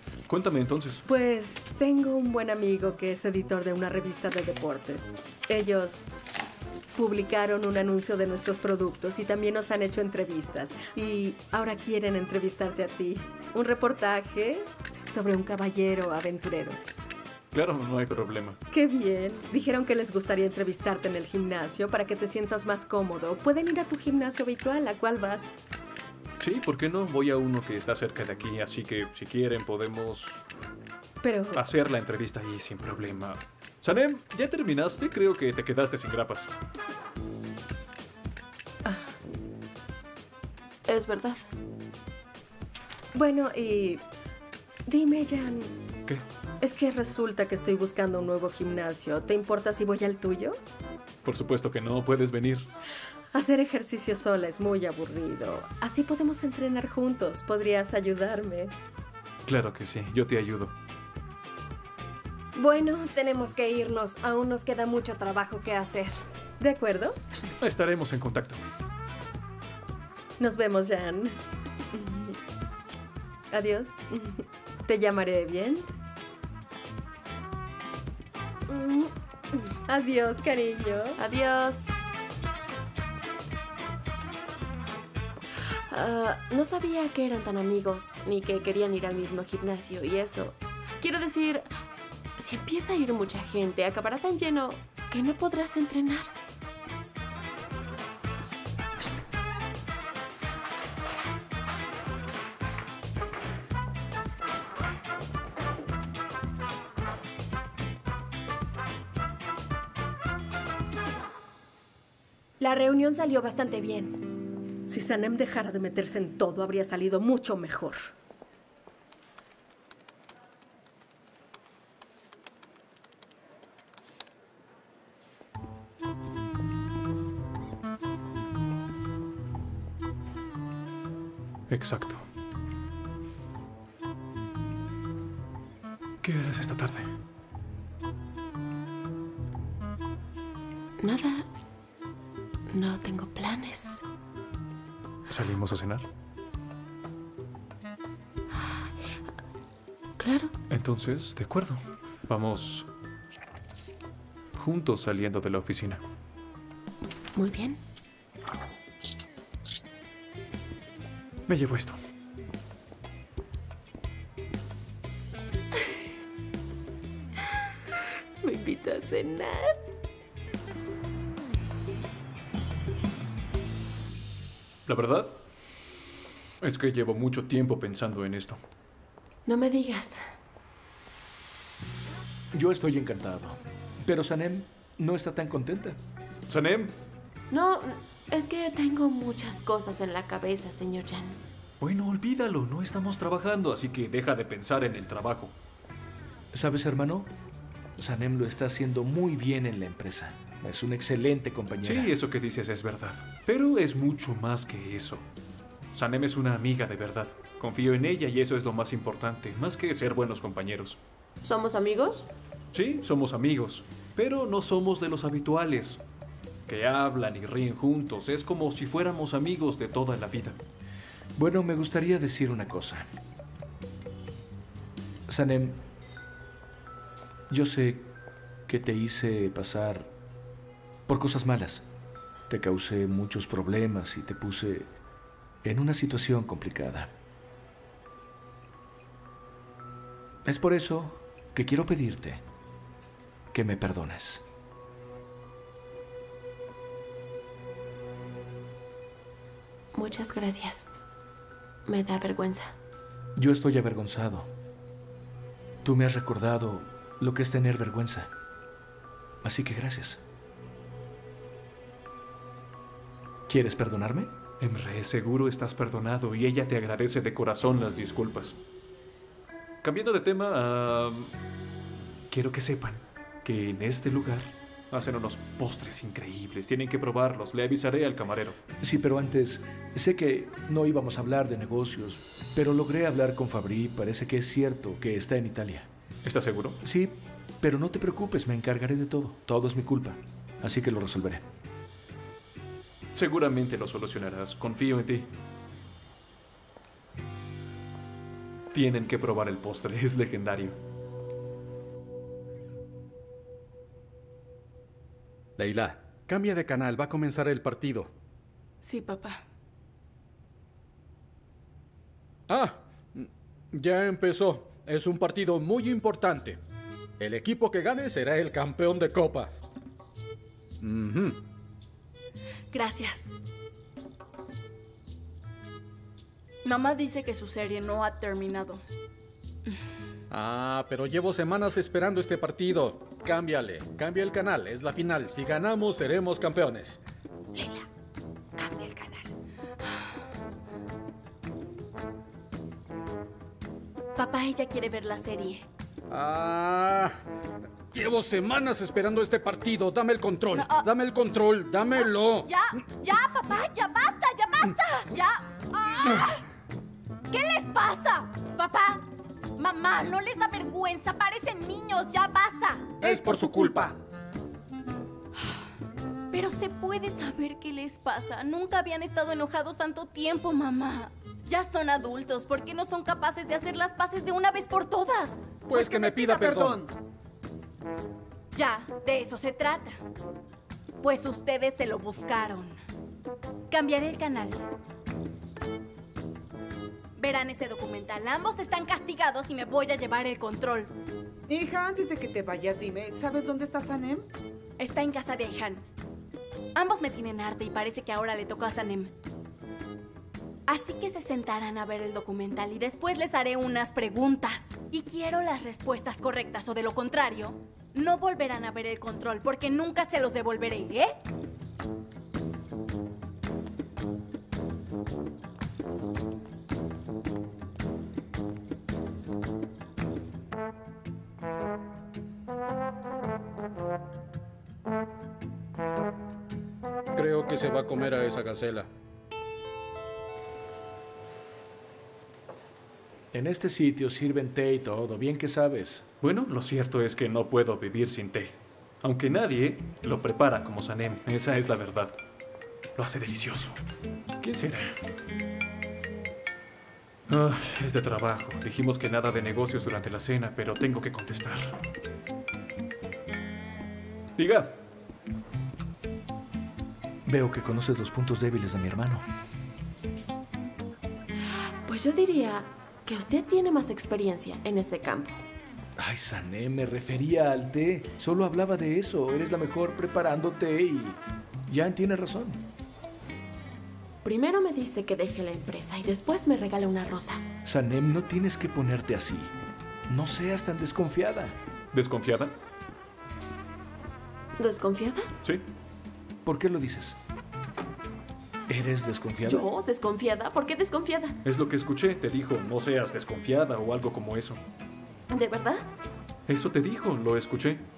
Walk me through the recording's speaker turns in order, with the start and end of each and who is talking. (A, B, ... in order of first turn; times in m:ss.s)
0:00.3-0:01.0 A
0:01.0-0:06.0 B
0:07.0-0:16.8 B
0:17.5-0:18.6 A
0:18.7-0:25.5 B
0:26.4-0:30.4 A
0:31.2-0:31.7 B
0:31.5-0:36.5 A
0:38.8-0:39.1 B
0:40.9-0:41.5 C
0:43.1-0:44.0 B
0:44.9-0:45.7 B
0:46.6-0:50.6 B
0:51.2-0:52.7 A
0:53.3-0:58.7 B
0:59.5-1:00.7 A
1:02.6-1:06.2 D
1:06.6-1:07.2 B
1:07.6-1:08.6 A
1:10.4-1:11.4 B
1:11.9-1:12.4 B
1:13.5-1:15.9 B
1:18.7-1:19.1 C
1:19.9-1:21.2 B
1:21.2-1:22.0 C
1:25.9-1:31.7 C
1:32.4-1:36.3 C
1:52.6-1:54.2 D
1:54.9-1:58.1 B
2:11.7-2:12.2 A
2:16.2-2:17.1 A
2:21.0-2:21.4 C
2:22.7-2:24.0 C
2:25.3-2:26.1 A
2:30.2-2:30.5 C
2:30.7-2:32.9 A
2:34.6-2:36.0 A
2:37.4-2:37.8 C
2:41.5-2:42.0 A
2:48.4-2:49.8 C
2:54.9-2:55.4 A
2:56.6-2:58.6 A
2:59.4-3:00.2 C
3:02.5-3:06.0 E
3:06.5-3:06.9 A
3:07.5-3:11.4 C
3:11.8-3:15.5 A
3:16.5-3:17.3 E
3:18.0-3:22.1 E
3:21.8-3:25.2 A
3:25.9-3:31.0 A
3:31.4-3:32.3 C
3:32.7-3:36.0 A
3:36.7-3:40.6 A
3:41.4-3:43.1 E
3:45.3-3:45.8 E
3:47.5-3:48.1 E
3:48.7-3:50.1 E
3:51.1-3:51.8 E
3:52.5-3:54.9 E
3:55.6-3:57.1 E
4:00.4-4:02.4 E
4:03.5-4:04.4 E
4:09.9-4:10.9 C
4:11.9-4:12.7 C
4:13.4-4:14.5 E
4:15.8-4:18.3 E
4:19.4-4:20.2 E
4:23.5-4:24.3 E
4:24.6-4:28.6 A
4:29.8-4:31.3 A
4:32.3-4:38.6 A
4:38.8-4:45.9 E
4:46.2-4:46.8 A
4:46.8-4:51.4 E
4:53.1-4:55.3 A
4:58.7-5:00.8 A
5:05.6-5:08.1 F
5:08.8-5:09.4 G
5:12.5-5:16.6 F
5:17.2-5:19.5 F
5:20.8-5:21.4 F
5:22.7-5:23.3 G
5:26.6-5:28.8 G
5:30.3-5:37.0 F
5:44.2-5:45.7 G
5:46.1-5:47.2 F
5:47.9-5:52.5 F
5:50.5-5:50.9 G
5:51.9-5:56.4 G
5:57.3-5:59.0 G
5:59.6-6:03.0 G
6:03.0-6:03.9 F
6:03.0-6:03.9 H
6:06.3-6:15.6 G
6:15.7-6:16.8 F
6:15.7-6:16.9 H
6:18.5-6:20.0 G
6:21.0-6:22.8 G
6:23.7-6:24.6 G
6:27.2-6:30.9 G
6:31.5-6:34.3 H
6:34.8-6:35.8 G
6:36.7-6:39.1 G
6:40.7-6:51.2 G
7:07.1-7:08.9 F
7:13.3-7:16.0 E
7:16.2-7:22.1 A
7:23.0-7:23.8 A
7:24.4-7:25.0 A
7:27.3-7:31.8 A
7:34.4-7:34.7 A
7:37.3-7:39.2 E
7:41.9-7:45.4 C
7:46.0-7:52.6 E
7:54.2-7:57.4 C
7:57.6-7:59.5 E
8:00.1-8:01.6 E
8:01.9-8:02.5 A
8:04.6-8:05.3 C
8:06.4-8:07.2 E
8:08.7-8:09.6 E
8:09.4-8:11.4 C
8:11.4-8:14.6 A
8:15.3-8:15.8 C
8:16.5-8:17.8 A